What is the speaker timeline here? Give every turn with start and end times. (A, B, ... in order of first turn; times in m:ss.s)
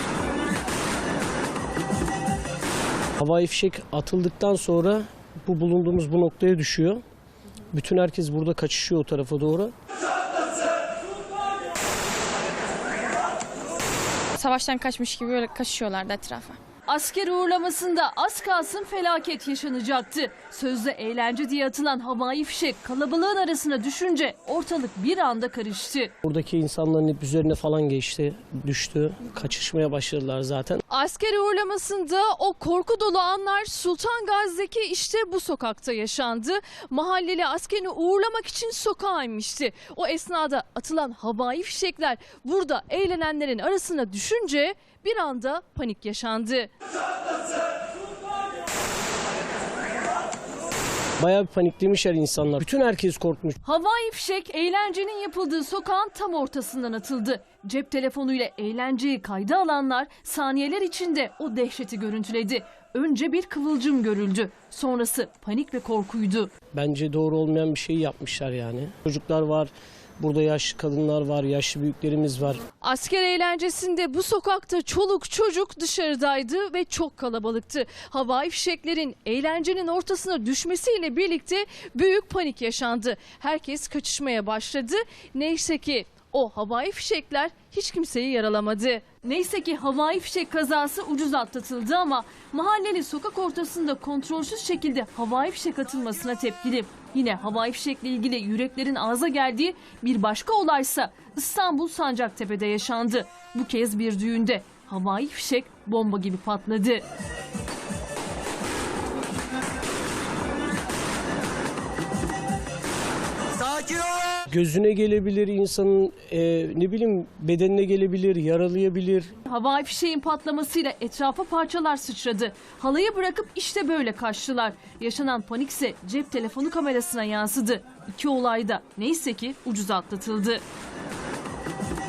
0:03.2-0:07.0 A
0:07.7-0:09.7 A
0:14.4-0:16.6 B
0:16.8-0:26.1 C
0:26.2-0:30.8 A
0:30.9-0:46.7 C
0:51.2-0:53.6 A
0:53.6-1:06.5 C
1:06.7-1:12.6 A
1:12.8-1:47.0 C
1:54.4-1:59.3 A
1:59.4-2:10.6 C